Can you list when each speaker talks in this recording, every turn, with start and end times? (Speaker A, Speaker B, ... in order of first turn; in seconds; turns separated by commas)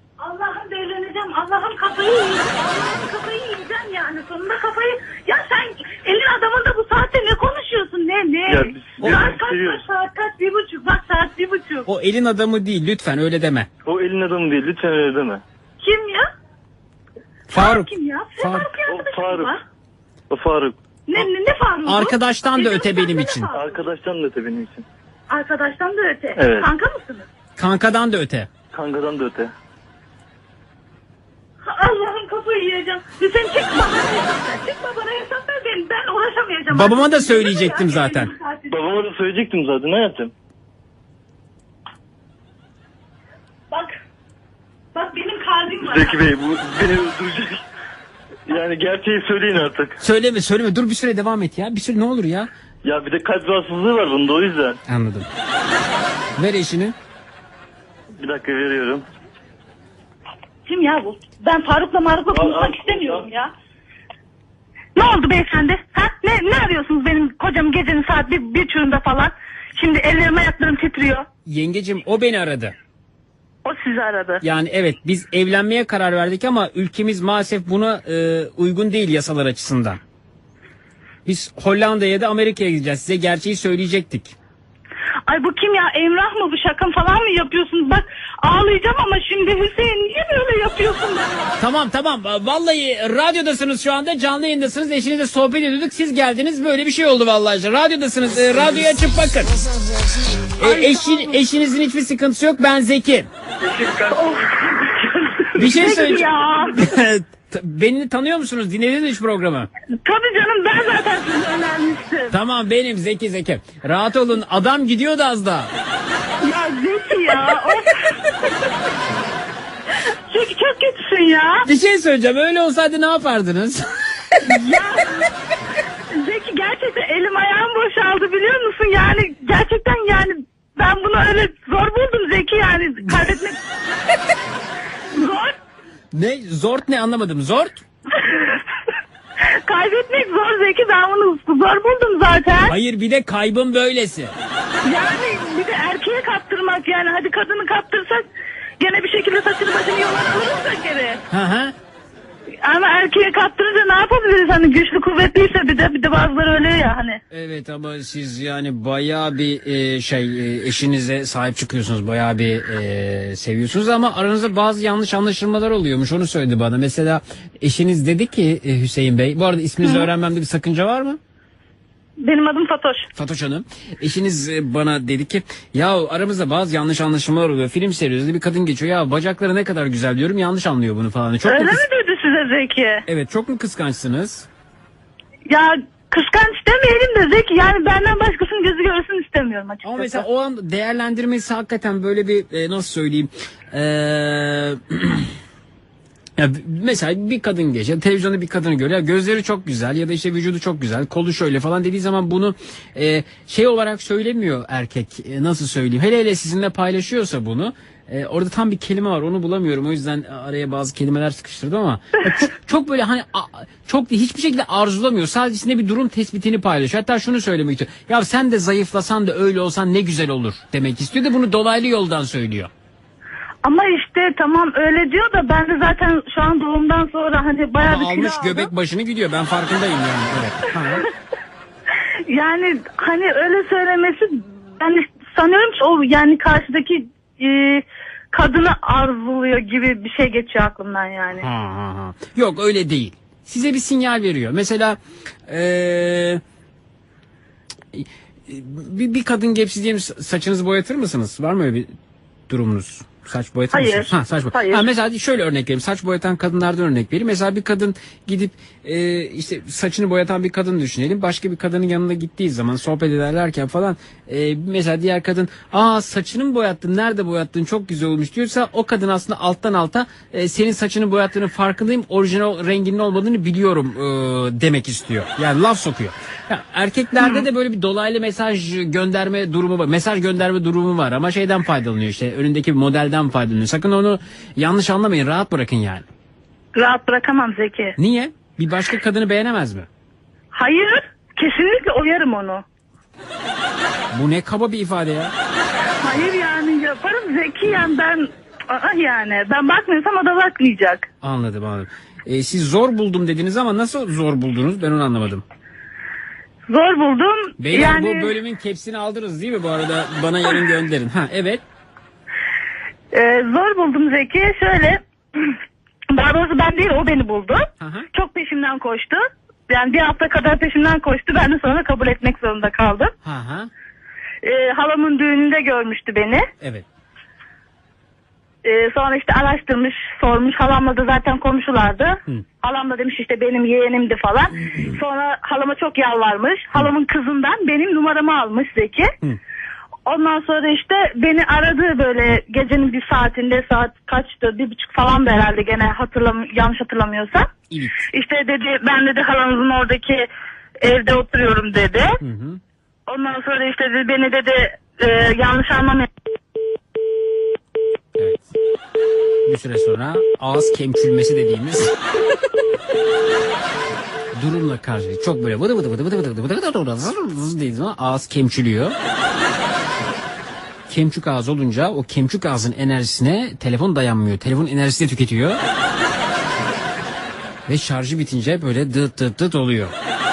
Speaker A: 0.2-11.9, Speaker B: 8.5-9.8, Speaker C: 11.9-13.7, Speaker B: 13.8-15.4, Speaker A: 15.8-16.3, Speaker C: 17.5-18.7, Speaker A: 17.5-19.6, Speaker B: 18.9-19.6, Speaker B: 20.3-20.8, Speaker A: 21.1-23.8, Speaker C: 21.9-23.5, Speaker B: 23.5-24.9, Speaker A: 25.3-27.3, Speaker B: 26.4-26.7, Speaker C: 27.6-28.5, Speaker B: 28.7-29.5, Speaker A: 31.6-38.8, Speaker C: 36.7-38.3, Speaker B: 38.7-40.3, Speaker A: 43.7-44.0, Speaker A: 44.9-46.2, Speaker B: 45.8-47.6, Speaker B: 48.5-50.0, Speaker C: 50.0-52.5, Speaker B: 52.9-54.8, Speaker C: 54.9-55.3, Speaker C: 56.4-57.0, Speaker B: 58.2-59.0, Speaker A: 60.7-63.5, Speaker B: 62.3-63.3, Speaker A: 65.0-71.3, Speaker C: 71.5-72.8, Speaker A: 73.7-74.4, Speaker C: 74.4-80.0, Speaker C: 81.2-84.3, Speaker A: 85.3-91.6, Speaker C: 91.6-99.6, Speaker C: 100.6-103.3, Speaker A: 100.6-101.4, Speaker B: 103.8-104.1, Speaker A: 104.1-106.8, Speaker C: 105.6-109.7, Speaker A: 110.0-112.3, Speaker C: 112.3-115.7, Speaker A: 116.4-118.3, Speaker A: 120.3-121.7, Speaker C: 121.7-124.4, Speaker A: 124.4-125.3, Speaker A: 126.1-133.6, Speaker A: 135.2-135.6, Speaker C: 136.1-137.8, Speaker A: 138.2-138.6, Speaker A: 139.6-142.8, Speaker C: 142.7-144.4, Speaker A: 144.8-148.3, Speaker A: 148.8-151.2, Speaker C: 151.3-151.7, Speaker A: 152.6-157.2, Speaker C: 157.3-171.2, Speaker A: 169.8-170.1, Speaker A: 172.2-173.1, Speaker C: 173.2-181.8, Speaker A: 181.4-183.1, Speaker C: 183.1-184.5, Speaker A: 185.5-190.2, Speaker C: 189.8-195.3, Speaker C: 196.4-222.7, Speaker A: 223.6-228.7, Speaker C: 227.8-231.1, Speaker A: 232.3-241.4, Speaker C: 241.4-246.4, Speaker C: 247.9-251.9, Speaker C: 252.5-286.1, Speaker A: 253.7-254.9, Speaker A: 286.8-287.9, Speaker C: 288.0-289.9, Speaker A: 290.5-292.6, Speaker C: 294.1-295.3, Speaker A: 296.0-301.1, Speaker C: 301.2-305.4, Speaker A: 306.7-308.3, Speaker C: 307.6-311.6, Speaker A: 313.1-315.6, Speaker A: 316.1-323.1, Speaker C: 317.8-318.1, Speaker C: 323.2-323.7, Speaker A: 324.4-326.5, Speaker A: 328.6-339.1, Speaker A: 340.1-347.5, Speaker C: 347.7-348.1, Speaker A: 348.1-350.3, Speaker A: 350.8-352.2, Speaker C: 352.2-352.6, Speaker A: 353.1-356.1, Speaker C: 358.2-358.4, Speaker C: 359.5-361.9, Speaker C: 364.4-369.0, Speaker C: 370.9-375.6, Speaker C: 377.7-379.9